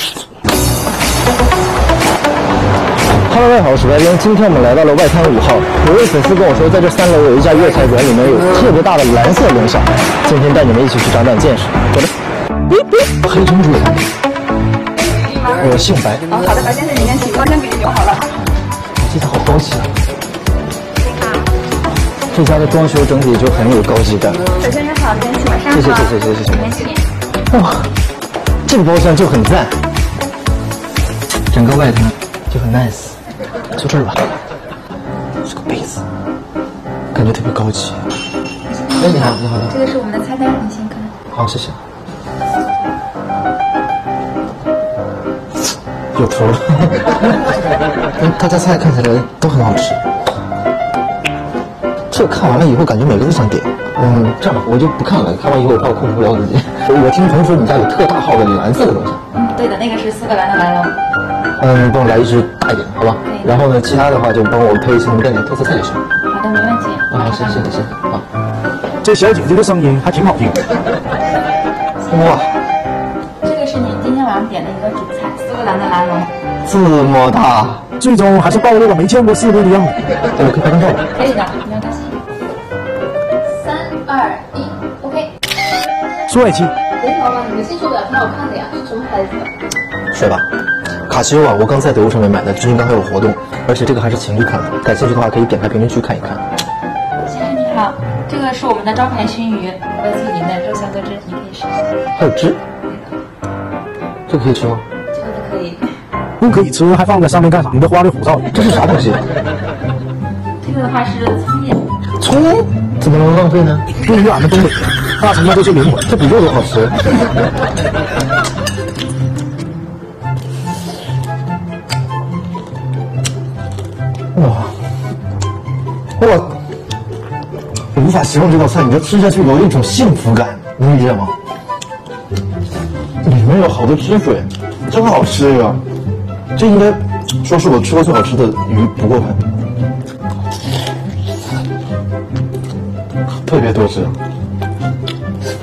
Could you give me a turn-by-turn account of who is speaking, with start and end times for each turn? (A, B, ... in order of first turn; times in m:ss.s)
0:03.3-0:12.0 A
0:13.2-0:14.0 A
0:15.5-0:16.3 A
0:16.3-0:18.3 B
0:19.0-0:19.9 A
0:22.3-0:24.4 A
0:24.6-0:27.1 B
0:25.7-0:26.7 A
0:27.5-0:27.9 A
0:28.7-0:29.8 A
0:31.5-0:33.2 A
0:33.7-0:34.2 A
0:35.4-0:36.0 A
0:37.1-0:38.1 A
0:38.7-0:41.1 B
0:39.0-0:39.8 A
0:41.3-0:41.8 A
0:46.2-0:47.4 A
0:48.2-0:50.0 A
0:52.1-0:59.2 A
0:59.3-1:01.0 B
1:01.6-1:06.0 A
1:03.2-1:03.6 B
1:06.2-1:07.8 B
1:07.1-1:08.3 A
1:09.0-1:10.6 C
1:12.0-1:12.4 B
1:12.1-1:12.5 A
1:13.4-1:16.3 B
1:16.6-1:17.8 A
1:18.0-1:20.0 C
1:20.4-1:21.0 A
1:21.1-1:22.2 B
1:23.5-1:25.3 B
1:26.3-1:26.7 C
1:27.0-1:29.5 B
1:30.1-1:30.4 A
1:31.1-1:36.4 A
1:37.2-1:42.0 B
1:42.2-1:42.6 A
1:42.8-1:43.1 B
1:44.3-1:44.8 A
1:45.1-1:45.9 B
1:46.4-1:48.5 C
1:48.5-1:49.2 A
1:50.6-1:51.9 B
1:52.2-1:53.9 A
1:54.0-1:56.1 C
1:56.1-1:57.1 A
2:04.3-2:04.7 A
2:06.2-2:06.6 A
2:07.9-2:11.3 A
2:13.2-2:15.8 A
2:16.6-2:19.5 A
2:23.4-2:24.2 A